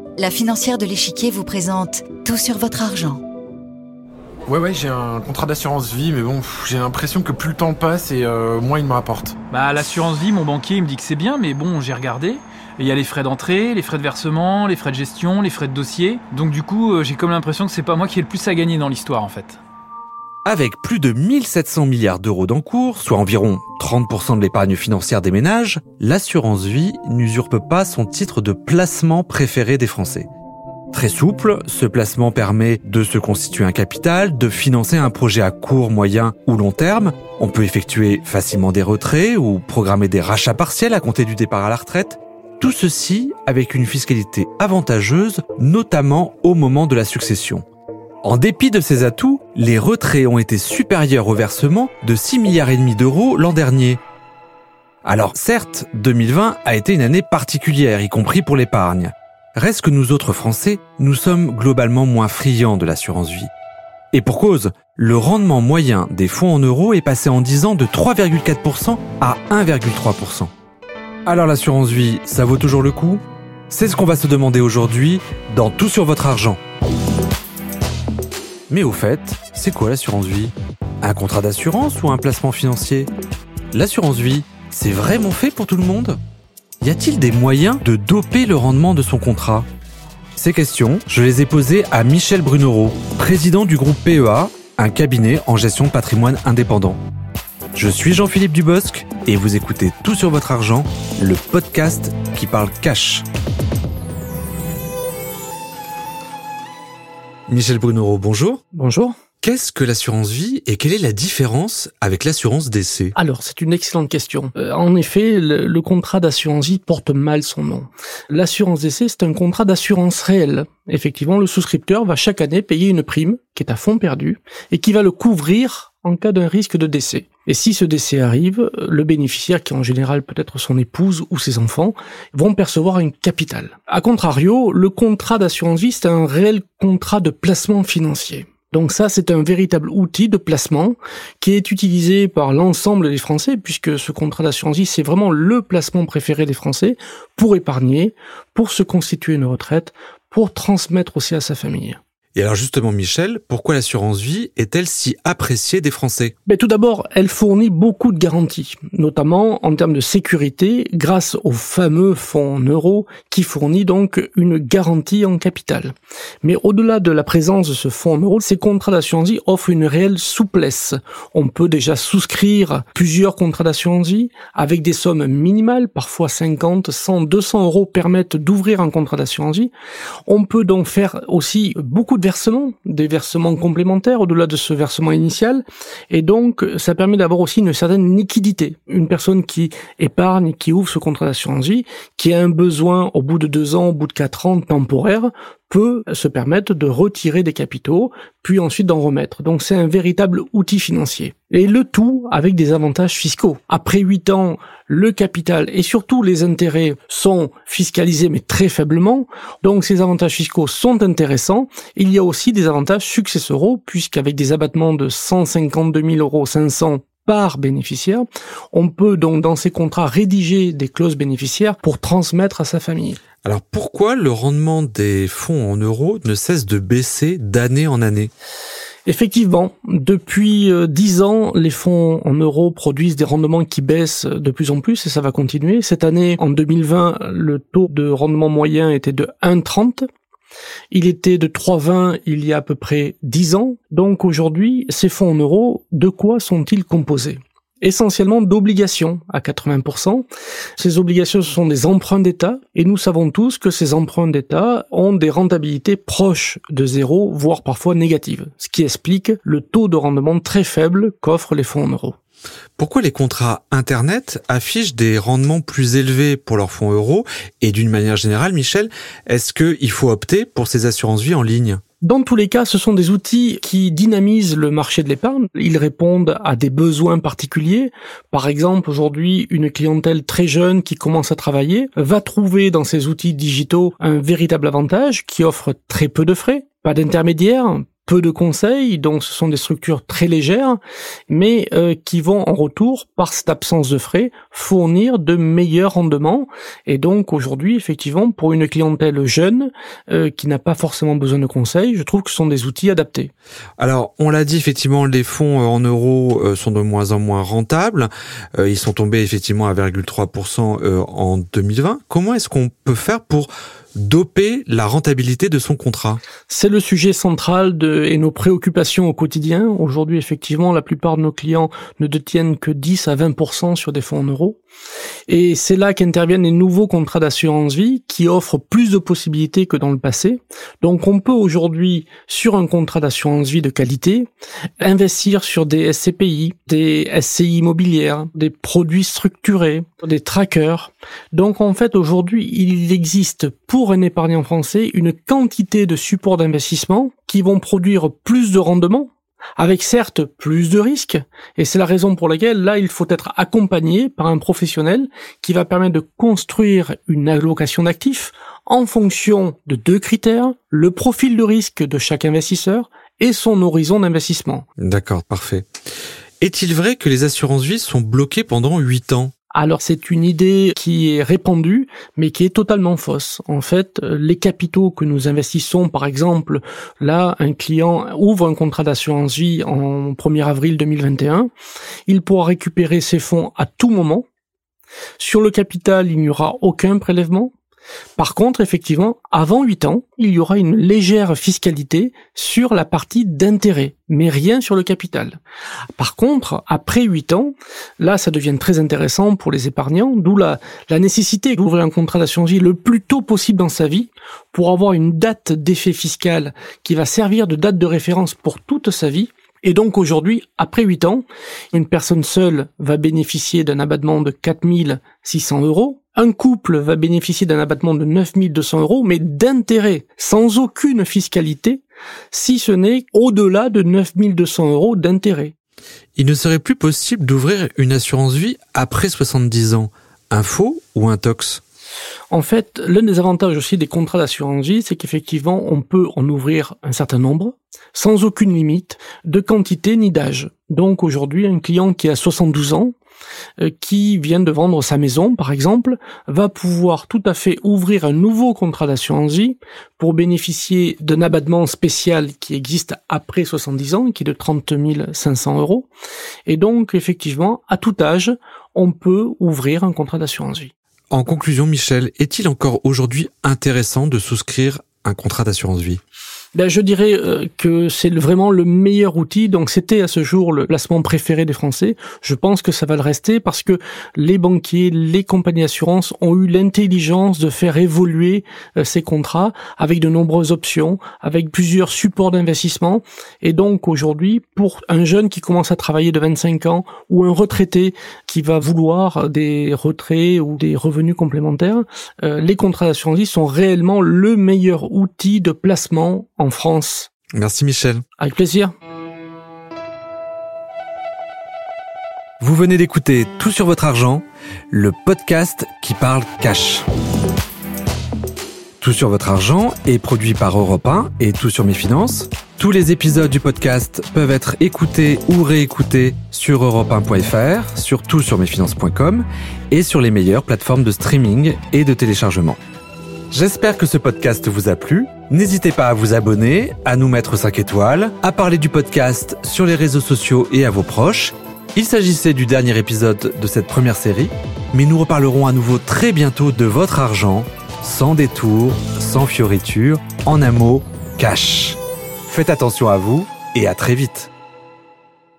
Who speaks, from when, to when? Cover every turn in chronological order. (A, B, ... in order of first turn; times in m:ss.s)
0:00.2-0:03.2 A
0:04.5-0:09.3 B
0:09.5-0:19.6 C
0:20.4-0:30.3 D
0:30.9-0:47.6 D
0:48.2-0:54.0 D
0:55.0-1:03.5 D
1:04.1-1:10.5 D
1:11.2-1:16.6 D
1:18.7-1:23.1 D
1:23.7-1:26.2 D
1:26.8-1:29.6 D
1:30.4-1:37.0 D
1:37.7-1:43.2 D
1:47.5-1:48.6 D
1:48.7-1:49.1 E
1:49.4-1:53.1 D
1:53.2-2:32.0 E
2:32.3-2:36.3 D
2:36.4-2:59.7 E
3:00.3-3:43.2 E
3:43.4-3:48.3 D
3:49.0-4:00.1 E
4:00.9-4:10.2 E
4:10.8-4:22.2 E
4:22.8-4:31.8 D
4:32.0-5:03.3 E
5:03.8-5:16.2 D
5:16.5-5:24.6 E
5:25.3-5:34.3 E
5:34.8-6:04.6 E
6:04.8-6:05.7 D
6:06.4-6:09.3 D
6:09.5-6:21.5 E
6:22.1-6:24.2 E
6:25.2-6:27.5 E
6:28.2-6:35.4 E
6:36.0-7:01.8 E
7:02.3-7:05.5 E
7:06.2-7:11.6 D
7:12.3-7:22.9 E
7:23.6-7:35.9 E
7:36.5-7:40.7 E
7:41.1-7:46.0 D
7:46.5-8:17.1 E
8:17.4-8:18.0 D
8:18.2-8:18.7 E
8:22.4-8:26.8 D
8:28.8-8:42.6 D
8:43.3-9:04.3 D